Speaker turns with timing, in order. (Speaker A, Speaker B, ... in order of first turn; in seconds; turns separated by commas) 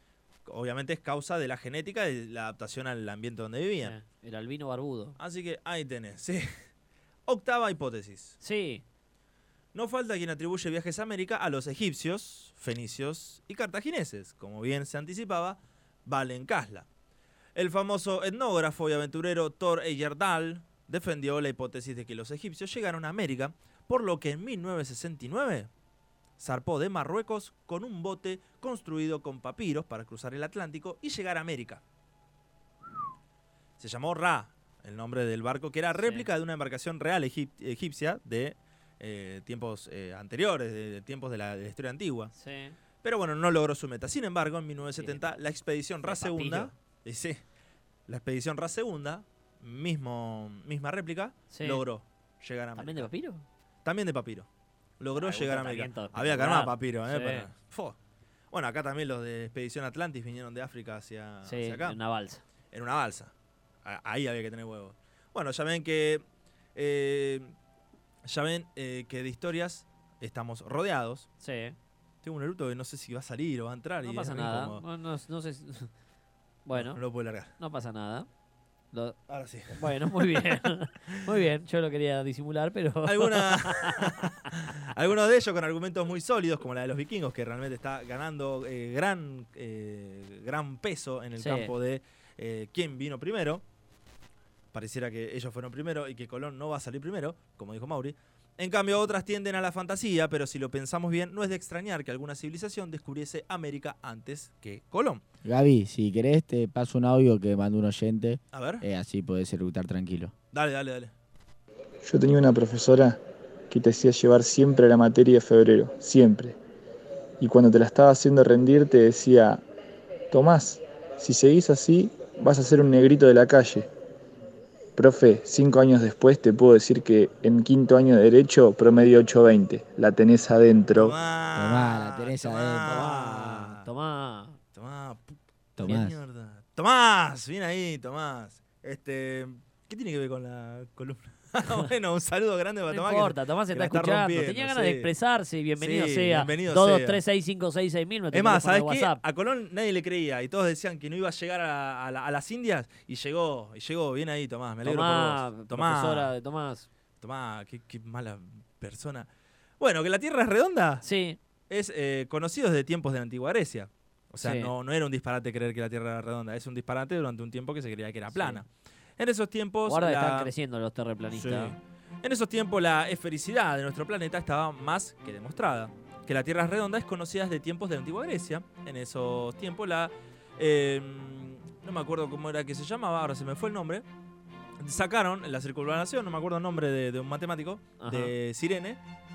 Speaker A: 0.4-3.9, Speaker B: 3.8-5.2, Speaker A: 5.2-6.7, Speaker A: 7.3-8.4, Speaker B: 8.4-8.8, Speaker A: 9.7-16.9, Speaker A: 17.5-25.7, Speaker A: 26.4-31.8, Speaker A: 33.8-42.3, Speaker B: 36.0-36.3, Speaker B: 42.4-42.8, Speaker A: 43.0-47.4, Speaker B: 46.0-46.7, Speaker A: 48.1-53.1, Speaker B: 51.5-51.8, Speaker B: 52.8-53.4, Speaker A: 53.8-54.5, Speaker A: 55.0-58.0, Speaker B: 55.1-57.5, Speaker A: 58.5-62.0, Speaker B: 61.4-62.4, Speaker A: 62.7-63.3, Speaker A: 63.8-66.2, Speaker A: 66.7-67.5, Speaker A: 68.2-71.3, Speaker B: 71.4-71.7, Speaker A: 72.2-74.8, Speaker B: 74.0-75.9, Speaker B: 76.7-77.0, Speaker A: 76.7-77.5, Speaker B: 77.6-78.3, Speaker B: 78.9-79.2, Speaker A: 79.3-81.2, Speaker B: 79.7-84.8, Speaker A: 83.0-93.6, Speaker B: 91.4-91.7, Speaker A: 94.7-105.2, Speaker C: 105.4-110.3, Speaker A: 108.5-108.8, Speaker A: 110.5-111.1, Speaker D: 112.0-116.6, Speaker D: 117.4-119.6, Speaker D: 120.3-123.9, Speaker D: 125.0-131.1, Speaker A: 130.9-133.9, Speaker C: 131.6-133.0, Speaker B: 132.8-134.6, Speaker A: 134.7-145.1, Speaker C: 135.8-136.2, Speaker B: 142.9-149.2, Speaker A: 145.8-147.2, Speaker A: 148.3-156.3, Speaker B: 154.8-156.9, Speaker A: 157.2-159.3, Speaker A: 159.8-161.0, Speaker B: 161.0-161.4, Speaker A: 161.7-170.5, Speaker B: 164.4-164.7, Speaker B: 168.3-168.6, Speaker B: 169.9-171.8, Speaker A: 171.3-184.0, Speaker A: 184.8-189.0, Speaker B: 188.0-188.3